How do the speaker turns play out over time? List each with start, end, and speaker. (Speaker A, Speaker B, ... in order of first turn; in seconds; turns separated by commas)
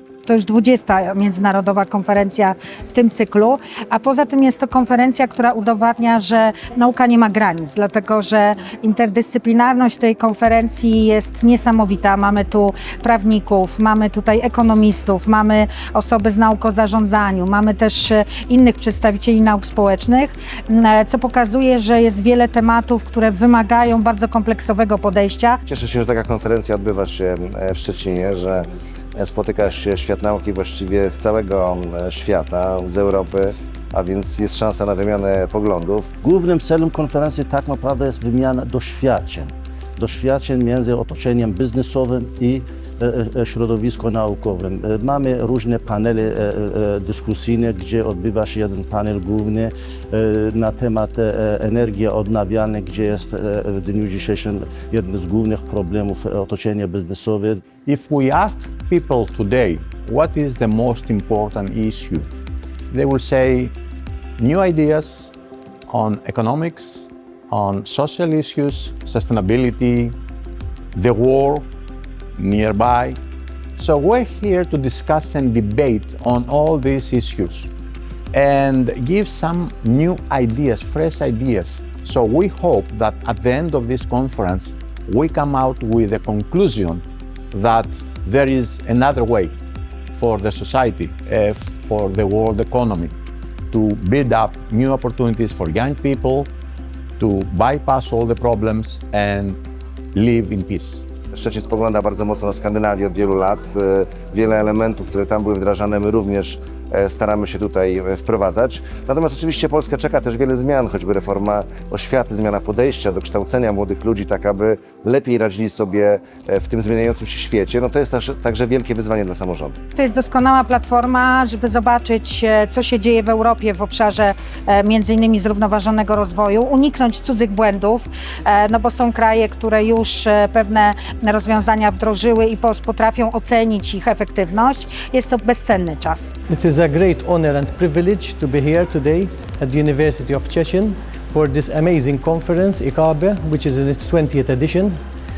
Speaker A: 0.2-25.6, Speaker B: 25.6-36.1, Speaker C: 36.2-57.6, Speaker D: 57.9-62.3, Speaker D: 62.9-63.7, Speaker D: 64.4-65.3, Speaker D: 65.9-70.2, Speaker D: 70.9-71.7, Speaker D: 72.3-73.2, Speaker D: 73.8-77.7, Speaker D: 78.3-89.5, Speaker D: 90.1-93.1, Speaker D: 93.7-96.5, Speaker D: 97.2-99.6, Speaker D: 100.1-101.0, Speaker B: 101.3-119.7, Speaker A: 120.0-136.3, Speaker E: 136.5-144.9